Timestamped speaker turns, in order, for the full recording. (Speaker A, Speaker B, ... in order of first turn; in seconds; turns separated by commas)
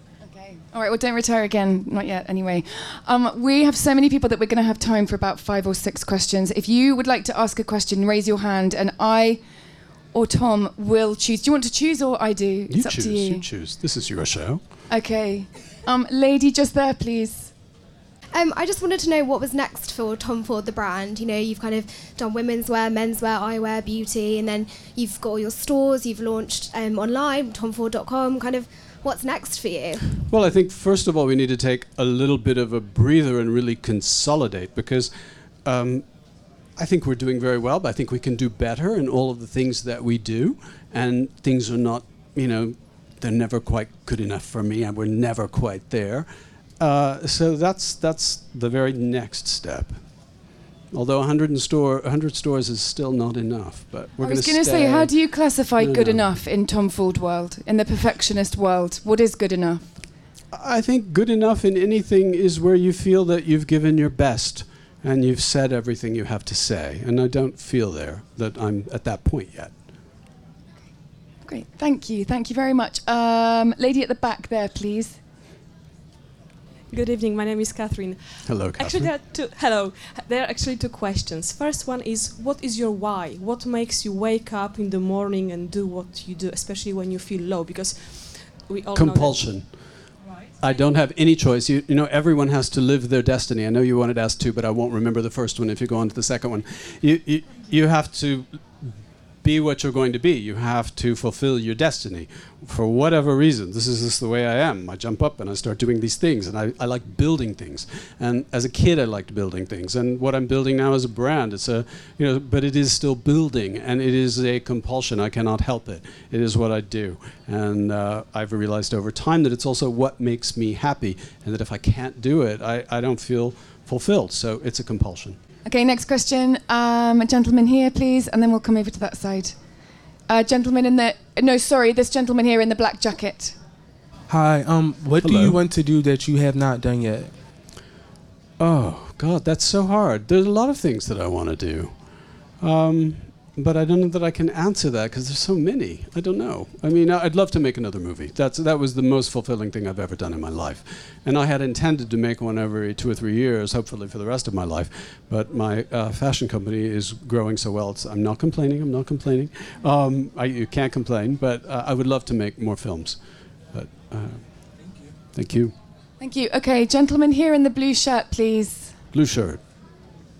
Speaker A: 0.2-9.4, Speaker A: 10.1-13.4, Speaker B: 12.7-14.6, Speaker A: 14.9-17.5, Speaker C: 18.3-30.2, Speaker B: 30.3-35.1, Speaker B: 35.6-36.1, Speaker B: 36.8-46.3, Speaker B: 46.8-50.0, Speaker B: 50.9-55.1, Speaker A: 54.2-60.0, Speaker B: 55.8-56.3, Speaker B: 60.5-69.7, Speaker A: 71.5-75.2, Speaker D: 76.9-89.5, Speaker B: 78.4-79.1, Speaker B: 88.9-89.7, Speaker B: 90.6-98.9, Speaker B: 99.4-125.4, Speaker A: 125.6-129.6, Speaker A: 130.3-133.6, Speaker E: 134.3-137.3, Speaker B: 135.2-135.6, Speaker B: 138.6-141.9, Speaker B: 142.6-163.2, Speaker B: 163.7-164.5, Speaker B: 165.3-165.7, Speaker A: 166.2-168.9, Speaker B: 169.1-169.6